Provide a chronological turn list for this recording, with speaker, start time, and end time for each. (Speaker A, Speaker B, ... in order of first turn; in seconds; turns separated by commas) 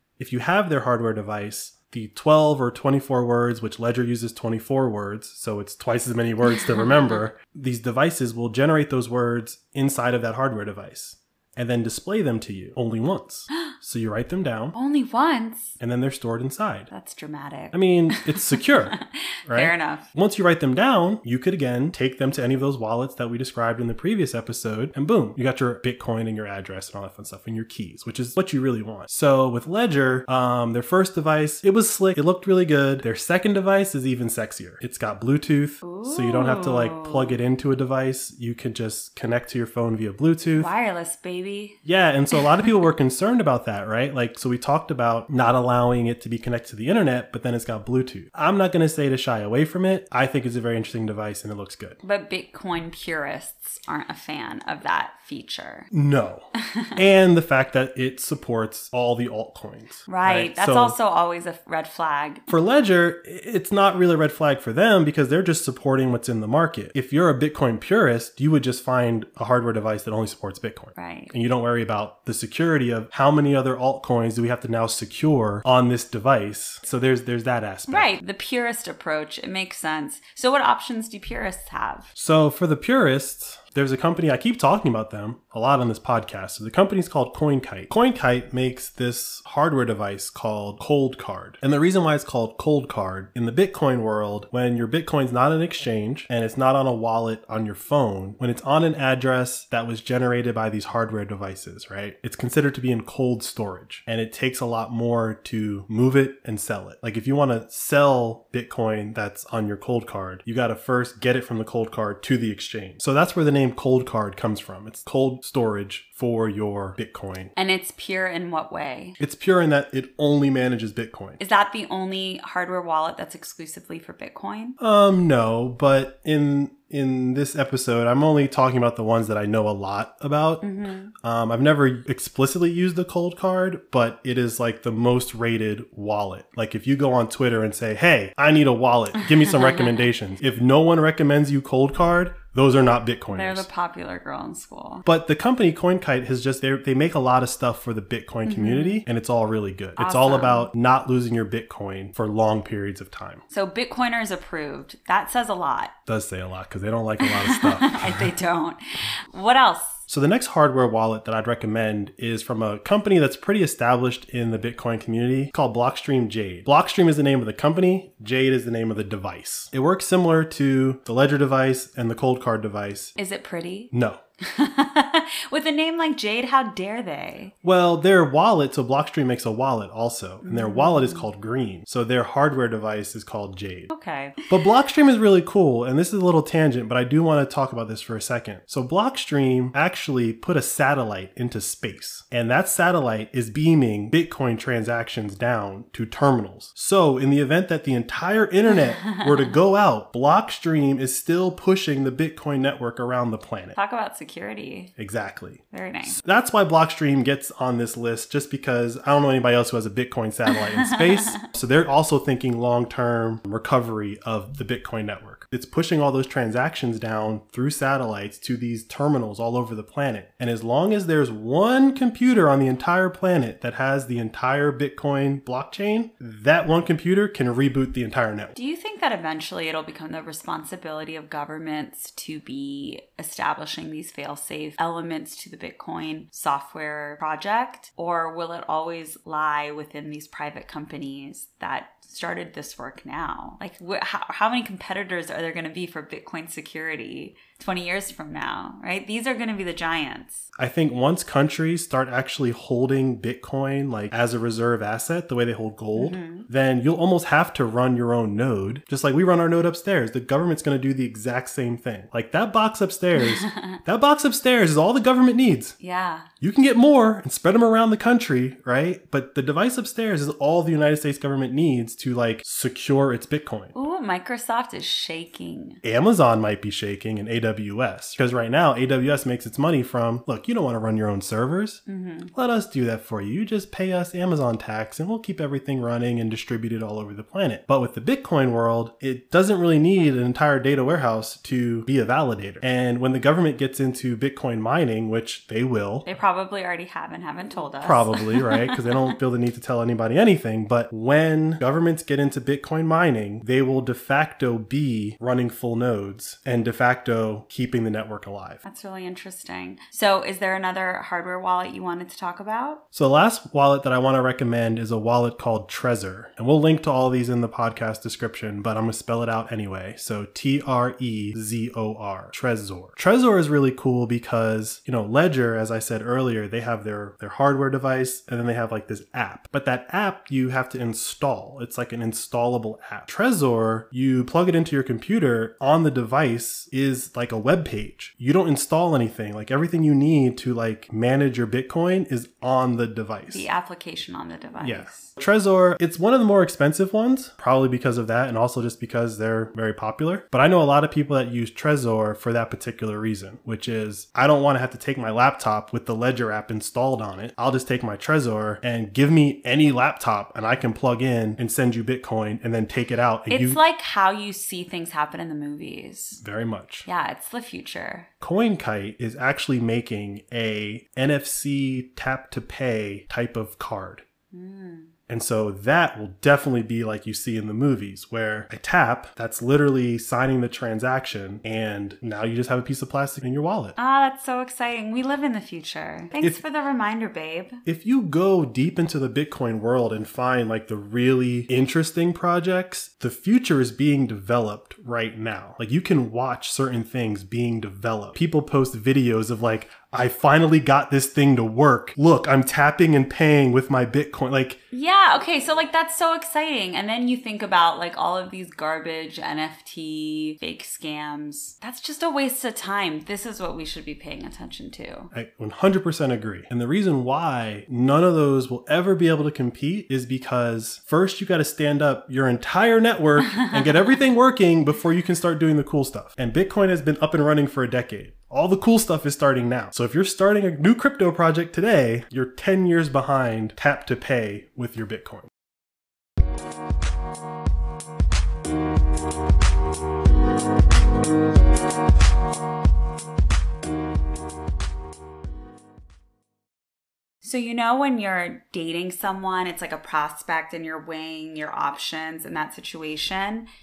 Speaker A: 0.2-14.8, Speaker B: 6.4-7.2, Speaker B: 14.7-15.8, Speaker A: 15.8-16.9, Speaker B: 16.9-20.0, Speaker A: 17.7-40.7, Speaker B: 35.8-37.4, Speaker B: 40.5-41.8, Speaker A: 41.8-52.0, Speaker B: 52.0-55.9, Speaker A: 55.9-61.0, Speaker B: 60.1-62.5, Speaker A: 62.5-78.1, Speaker B: 71.0-71.3, Speaker B: 77.9-82.1, Speaker A: 82.1-117.5, Speaker B: 117.5-119.2, Speaker A: 119.2-121.4, Speaker B: 121.4-124.8, Speaker A: 124.8-143.7, Speaker B: 130.6-131.1, Speaker B: 139.2-140.0, Speaker B: 143.3-145.0, Speaker A: 145.1-153.4, Speaker B: 148.4-149.0, Speaker B: 150.0-150.7, Speaker B: 153.5-155.9, Speaker A: 156.1-158.3, Speaker B: 157.2-160.0, Speaker A: 160.1-173.1, Speaker B: 173.2-177.5, Speaker A: 173.9-174.2, Speaker A: 177.6-183.9, Speaker B: 180.4-181.3, Speaker B: 183.9-184.4, Speaker A: 184.5-203.8, Speaker B: 198.7-199.5, Speaker B: 203.7-204.9, Speaker A: 205.0-228.5, Speaker B: 205.7-206.2, Speaker B: 210.5-211.4, Speaker B: 228.5-250.5, Speaker A: 250.6-265.8, Speaker B: 255.9-256.5, Speaker B: 263.2-263.8, Speaker B: 265.8-266.3, Speaker A: 266.4-273.7, Speaker B: 273.7-275.8, Speaker A: 275.8-281.8, Speaker B: 281.9-282.3, Speaker A: 282.3-296.1, Speaker B: 296.0-299.1, Speaker A: 297.8-308.6, Speaker B: 308.6-312.8, Speaker A: 312.9-343.5, Speaker B: 343.3-345.1, Speaker A: 344.6-363.6, Speaker B: 363.3-366.2, Speaker A: 366.2-366.9, Speaker B: 366.9-368.1, Speaker A: 368.2-374.0, Speaker B: 374.3-374.9, Speaker A: 375.1-383.8, Speaker B: 383.8-387.6, Speaker A: 387.6-404.6, Speaker B: 404.7-415.1, Speaker A: 415.1-435.3, Speaker B: 447.2-453.4